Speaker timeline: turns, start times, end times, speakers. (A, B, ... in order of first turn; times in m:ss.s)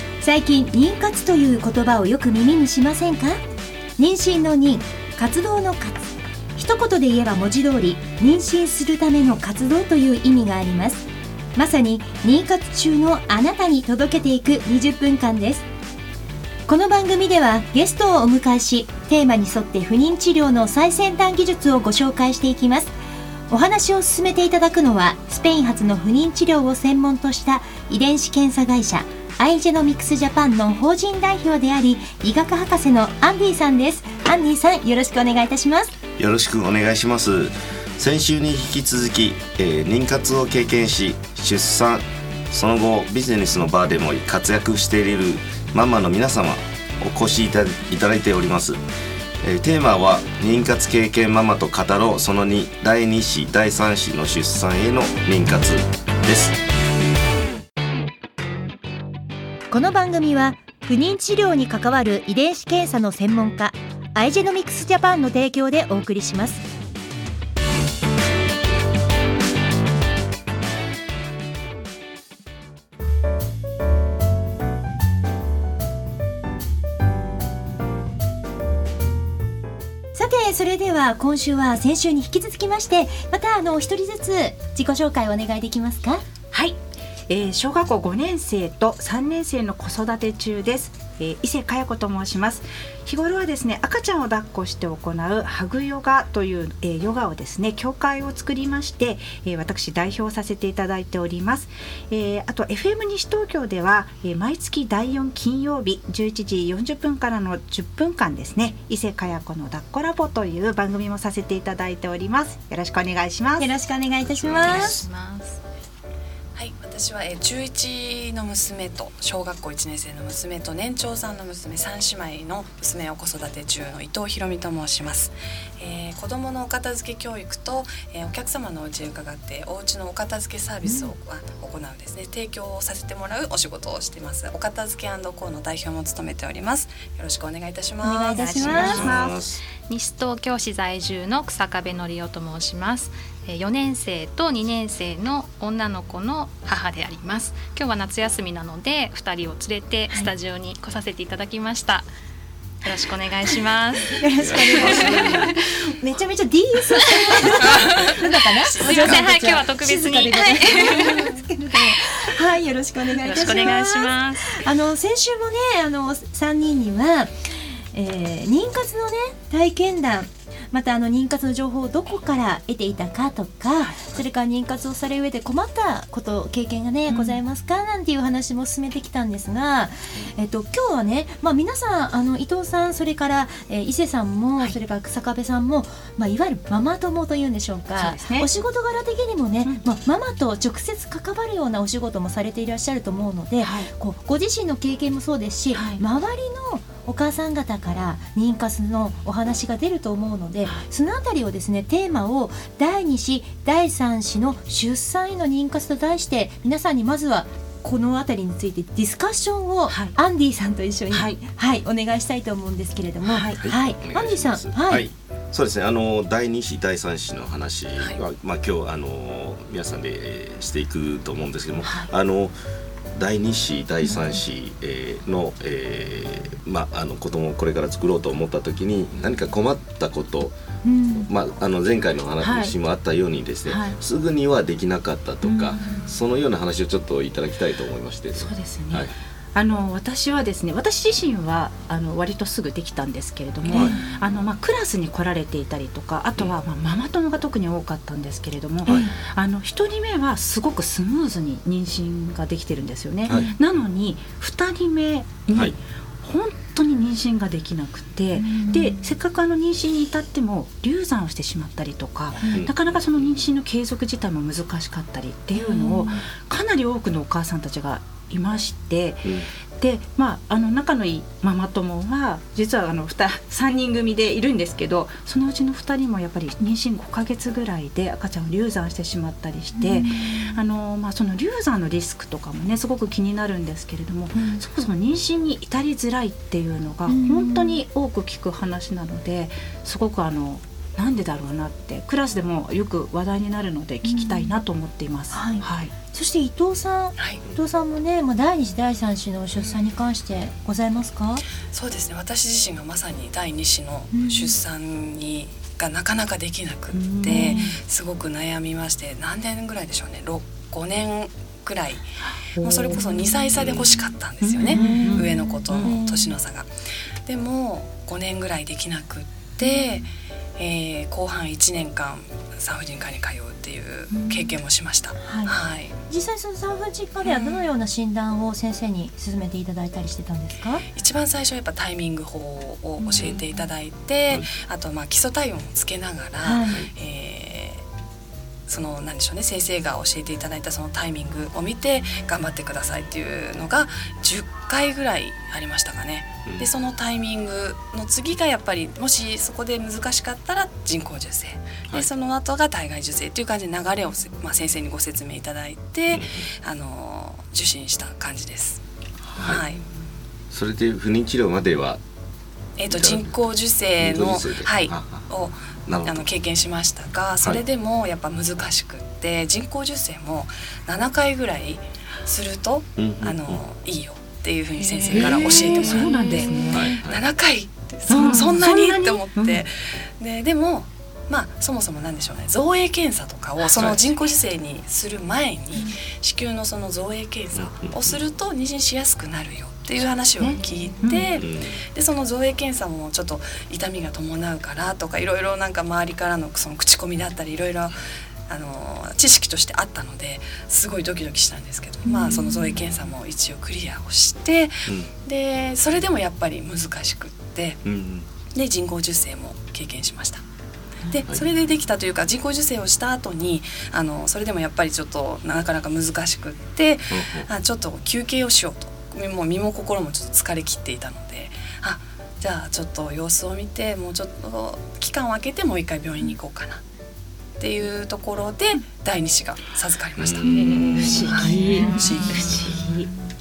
0:00.2-0:03.4 A
0:04.0-0:15.6 A
0:16.7-0:22.9 A
0:23.5-0:35.9 A
0:36.2-0:48.8 B
0:49.4-0:56.5 B
0:59.7-1:06.6 A
1:20.1-1:26.2 A
1:26.5-1:26.8 C
1:27.3-1:53.7 C
1:53.6-1:55.0 A
1:54.3-1:55.0 B
1:54.6-1:55.6 D
1:56.6-2:19.1 E
2:10.8-2:11.1 A
2:18.0-2:19.0 A
2:18.6-2:19.1 D
2:18.6-2:19.6 B
2:18.9-2:19.4 C
2:19.8-2:32.0 D
2:32.8-2:35.6 D
2:34.2-3:35.0 A
2:34.4-2:35.4 B
2:38.7-2:39.6 E
2:38.8-2:41.3 D
2:43.2-2:44.6 D
2:57.1-2:57.4 C
3:08.0-3:08.5 C
3:13.6-3:13.9 C
3:15.7-3:16.0 C
3:29.9-3:30.2 C
3:31.1-3:31.4 C
3:33.2-3:33.6 C
3:33.6-3:42.5 B
3:41.8-3:42.1 C
3:43.2-3:50.5 B
3:50.8-3:51.3 A
3:51.2-3:59.1 B
3:52.4-3:52.7 C
3:53.6-3:54.0 C
3:55.4-3:56.1 C
3:58.4-4:55.9 C
4:03.7-4:04.0 B
4:08.8-4:09.1 A
4:13.3-4:13.5 B
4:18.4-4:19.0 A
4:22.4-4:23.3 B
4:25.5-4:26.2 A
4:39.8-4:40.6 A
4:44.4-4:44.6 A
4:47.1-4:47.8 A
4:54.0-4:54.6 A
4:55.3-5:01.4 A
5:01.7-5:12.0 E
5:04.1-5:04.6 A
5:06.9-5:07.8 C
5:07.4-5:07.7 A
5:12.6-5:13.4 C
5:12.6-5:16.7 E
5:13.6-5:13.9 B
5:14.4-5:15.9 C
5:14.6-5:16.4 A
5:17.2-5:25.9 E
5:24.1-5:24.6 C
5:25.2-5:30.8 A
5:27.2-5:27.7 E
5:30.9-5:37.8 E
5:36.4-5:36.8 A
5:38.7-5:58.8 E
5:56.1-5:56.4 B
5:59.3-5:59.6 B
5:59.4-5:59.8 E
6:00.5-6:02.0 B
6:02.8-6:38.0 E
6:02.9-6:03.4 B
6:04.0-6:05.3 B
6:05.8-6:06.3 B
6:13.0-6:13.6 B
6:14.8-6:17.0 C
6:15.1-6:15.4 B
6:16.7-6:17.2 B
6:18.1-6:19.6 C
6:23.6-6:24.0 B
6:27.5-6:28.2 B
6:30.4-6:31.3 C
6:31.4-6:31.8 B
6:38.5-6:47.8 E
6:47.8-6:48.3 B
6:48.5-6:50.4 E
6:51.1-7:06.8 E
6:57.1-6:57.5 B
7:07.6-7:12.9 E
7:10.2-7:10.5 B
7:10.4-7:12.3 A
7:10.5-7:13.1 C